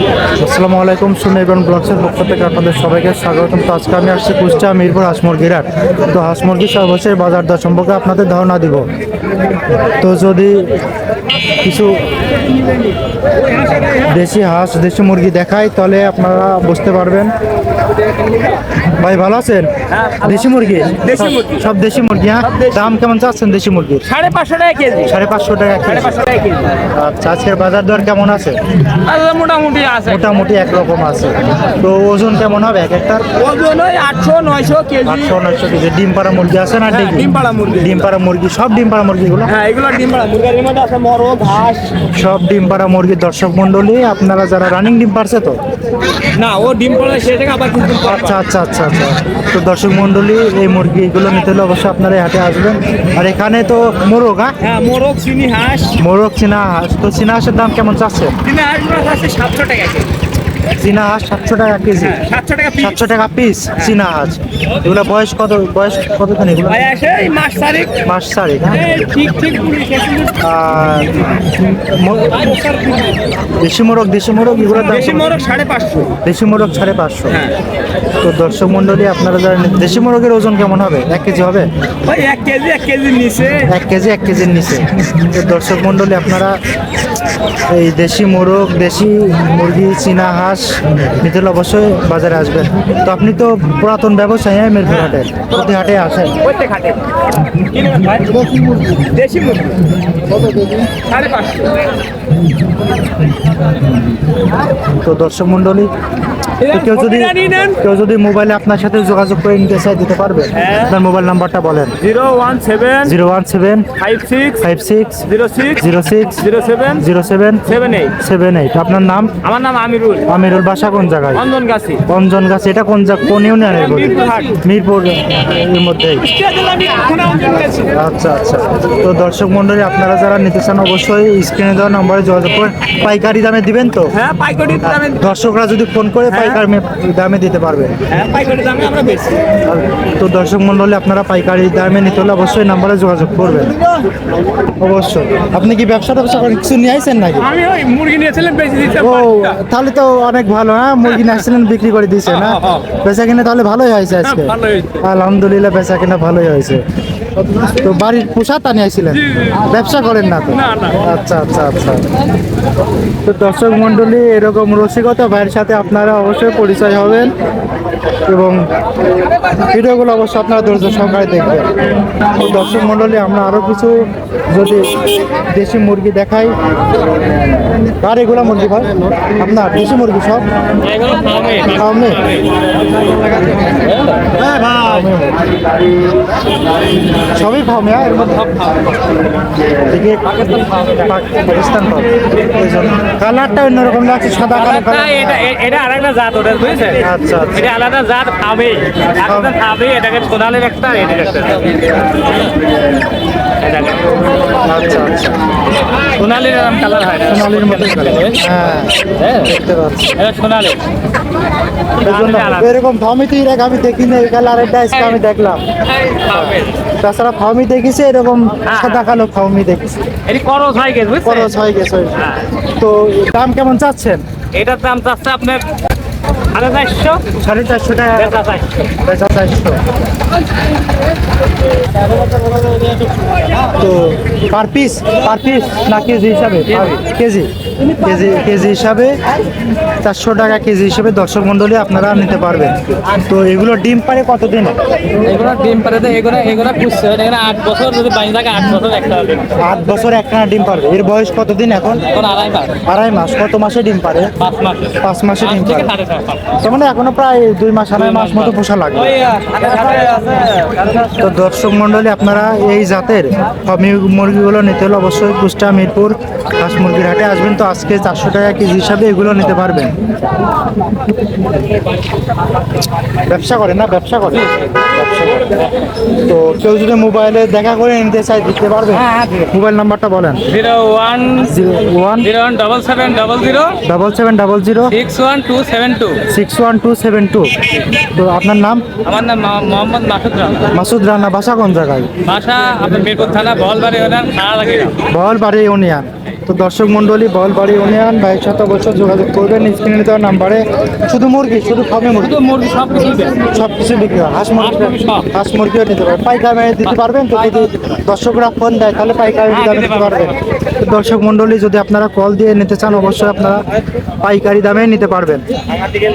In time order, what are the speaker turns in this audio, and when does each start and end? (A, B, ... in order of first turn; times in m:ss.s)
0:00.3-0:08.9 A
0:10.0-0:10.8 A
0:11.6-0:12.0 A
0:14.0-0:17.3 A
0:19.0-0:24.0 A
0:19.9-0:20.3 B
0:21.0-0:21.6 B
0:22.4-0:22.8 B
0:24.0-0:25.1 B
0:25.0-0:26.2 A
0:25.8-0:26.8 B
0:26.9-0:28.6 A
0:28.8-0:30.4 B
0:30.0-0:33.2 A
0:33.3-0:35.4 B
0:35.0-0:39.5 A
0:36.9-0:38.0 B
0:39.5-0:42.0 B
0:42.0-0:45.6 A
0:46.3-0:48.4 B
0:48.0-0:54.6 A
0:54.6-0:56.0 B
0:56.0-0:58.4 A
0:58.4-1:00.1 B
1:00.7-1:02.2 A
1:02.0-1:03.1 B
1:02.8-1:06.9 A
1:06.7-1:08.0 B
1:08.0-1:09.0 A
1:08.8-1:10.4 B
1:10.4-1:12.8 A
1:13.6-1:15.3 A
1:14.9-1:16.2 B
1:16.2-1:17.4 A
1:18.2-1:21.7 A
1:22.0-1:23.7 B
1:23.6-1:26.6 A
1:27.7-1:36.4 A
1:36.4-1:39.8 B
1:40.5-1:41.8 B
1:45.0-1:45.9 A
1:46.6-1:47.8 B
1:46.6-1:52.0 A
1:50.6-1:50.9 B
1:52.0-1:53.2 B
1:53.0-1:53.9 A
1:54.0-1:54.7 B
1:54.6-1:59.4 A
1:55.2-1:57.1 B
1:57.7-1:58.2 B
1:59.4-2:00.4 B
2:00.3-2:01.5 A
2:01.3-2:02.0 B
2:02.1-2:06.3 A
2:03.7-2:04.6 B
2:06.2-2:08.0 B
2:07.7-2:14.1 A
2:14.1-2:15.3 B
2:14.8-2:17.9 A
2:16.3-2:16.6 B
2:18.1-2:19.4 B
2:19.6-2:23.8 A
2:24.8-2:27.6 A
2:27.5-2:29.4 B
2:29.0-2:36.8 A
2:32.3-2:32.8 B
2:34.4-2:35.0 B
2:37.6-2:42.1 A
2:40.6-2:40.9 B
2:43.2-2:47.3 A
2:48.3-2:48.6 A
2:49.6-2:51.7 A
2:52.3-2:56.6 A
2:58.0-3:00.5 A
3:00.8-3:02.4 B
3:01.7-3:02.3 A
3:03.5-3:04.4 B
3:04.4-3:05.4 A
3:07.3-3:08.5 A
3:09.9-3:15.5 A
3:10.4-3:11.0 B
3:14.5-3:21.7 B
3:17.0-3:17.7 A
3:19.2-3:19.5 A
3:23.6-3:24.2 B
3:24.6-3:25.4 A
3:26.1-3:28.5 B
3:27.2-3:30.1 A
3:29.0-3:29.6 B
3:30.2-3:30.8 B
3:32.0-3:32.8 B
3:32.0-3:35.6 A
3:35.9-3:36.7 B
3:36.3-3:40.0 A
3:38.7-3:39.1 B
3:40.2-3:41.5 B
3:41.2-3:44.2 A
3:42.2-3:42.4 B
3:44.5-3:45.6 B
3:46.5-3:47.3 B
3:47.4-3:48.3 A
3:48.2-3:48.8 B
3:49.0-3:49.8 A
3:53.8-3:57.5 A
3:58.0-3:59.2 A
4:00.0-4:04.8 A
4:05.2-4:09.6 B
4:09.6-4:12.0 A
4:12.1-4:12.8 B
4:12.8-4:14.3 A
4:14.4-4:16.5 B
4:15.0-4:15.9 A
4:16.5-4:19.2 A
4:17.9-4:21.2 B
4:21.1-4:29.9 A
4:33.3-4:35.6 A
4:36.2-4:40.4 A
4:38.9-4:39.5 B
4:40.5-4:41.6 B
4:41.5-4:42.3 A
4:42.2-4:43.8 B
4:43.8-4:44.9 A
4:44.9-4:46.2 B
4:46.3-4:48.9 A
4:49.0-4:50.7 B
4:50.7-4:52.1 A
4:52.2-4:55.0 B
4:55.1-5:02.4 A
5:02.2-5:03.5 B
5:03.3-5:13.6 A
5:04.6-5:05.3 B
5:09.5-5:10.4 B
5:14.2-5:15.4 A